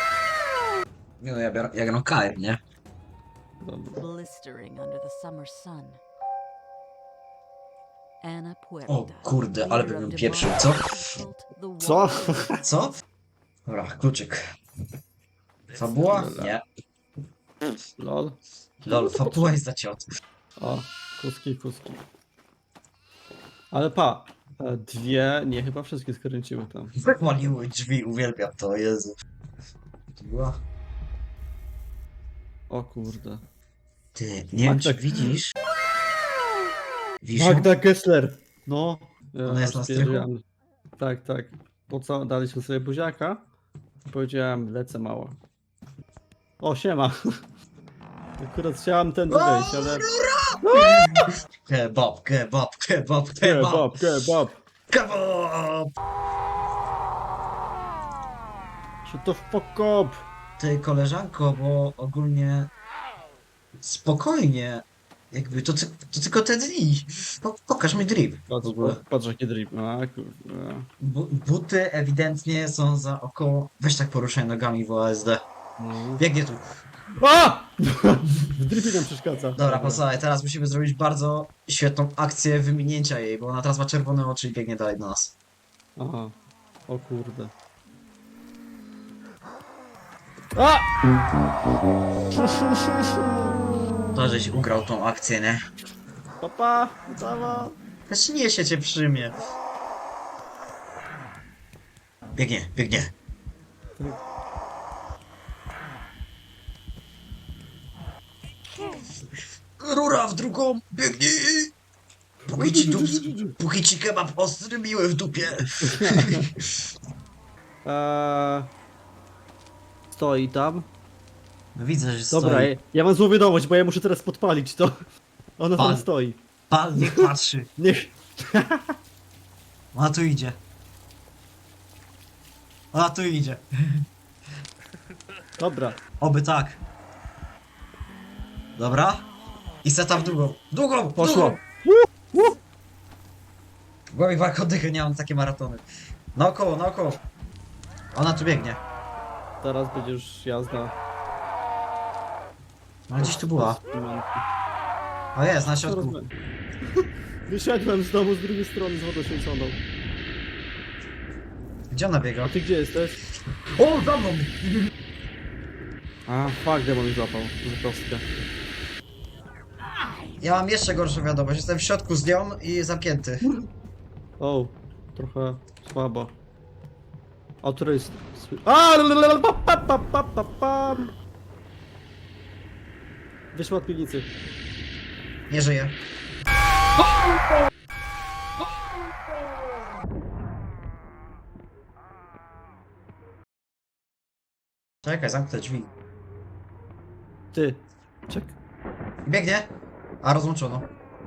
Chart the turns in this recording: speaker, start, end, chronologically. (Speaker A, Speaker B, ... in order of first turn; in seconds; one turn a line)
Speaker A: 1.2-2.6
Speaker B: 3.6-4.0
Speaker C: 4.0-6.0
Speaker C: 8.2-12.6
Speaker A: 8.9-11.0
Speaker B: 11.8-12.6
Speaker A: 12.6-12.9
Speaker A: 13.7-14.4
Speaker B: 15.7-16.6
Speaker A: 15.7-16.6
Speaker B: 18.0-19.6
Speaker A: 18.8-20.1
Speaker B: 20.6-22.0
Speaker B: 23.7-26.9
Speaker A: 27.0-29.1
Speaker A: 30.2-30.6
Speaker B: 32.7-33.4
Speaker A: 34.1-35.5
Speaker B: 34.6-35.4
Speaker A: 37.2-37.8
Speaker B: 37.4-40.4
Speaker A: 39.5-40.3
Speaker B: 41.0-43.5
Speaker B: 44.1-45.4
Speaker B: 46.6-47.2
Speaker B: 48.4-50.1
Speaker A: 49.3-54.0
Speaker B: 50.7-51.3
Speaker B: 53.4-54.6
Speaker A: 54.9-55.9
Speaker B: 59.0-60.2
Speaker A: 60.6-62.7
Speaker A: 63.8-69.0
Speaker B: 68.5-70.9
Speaker A: 71.0-75.4
Speaker B: 75.8-76.2
Speaker A: 76.2-76.7
Speaker B: 77.2-80.1
Speaker A: 79.6-85.3
Speaker B: 86.0-86.3
Speaker B: 86.9-87.5
Speaker B: 90.5-90.9
Speaker B: 92.3-93.5
Speaker A: 94.1-95.6
Speaker B: 96.4-97.8
Speaker A: 98.1-99.4
Speaker A: 102.4-103.1
Speaker A: 109.8-111.7
Speaker A: 112.5-116.4
Speaker B: 112.5-113.5
Speaker B: 115.8-116.5
Speaker B: 117.8-118.7
Speaker B: 120.1-120.9
Speaker A: 121.8-122.7
Speaker B: 122.3-125.0
Speaker B: 125.6-126.4
Speaker A: 125.8-126.0
Speaker A: 126.7-127.7
Speaker B: 127.0-129.0
Speaker A: 129.9-130.6
Speaker A: 132.9-133.7
Speaker B: 135.6-136.0
Speaker A: 136.2-136.8
Speaker A: 138.8-139.3
Speaker A: 139.8-141.6
Speaker B: 141.2-142.5
Speaker A: 144.1-145.8
Speaker A: 146.3-147.2
Speaker A: 148.1-148.8
Speaker B: 149.6-151.0
Speaker A: 153.1-153.8
Speaker B: 153.2-154.4
Speaker A: 155.3-156.2
Speaker B: 155.8-156.3
Speaker B: 157.0-159.8
Speaker A: 161.9-162.6
Speaker B: 162.4-163.2
Speaker A: 163.7-164.9
Speaker B: 166.3-168.2
Speaker A: 170.4-173.4
Speaker B: 174.4-176.3
Speaker B: 177.6-181.1
Speaker B: 183.5-184.3
Speaker A: 185.5-185.9
Speaker A: 195.0-195.9
Speaker B: 197.5-198.6
Speaker A: 199.3-199.7
Speaker A: 200.2-200.9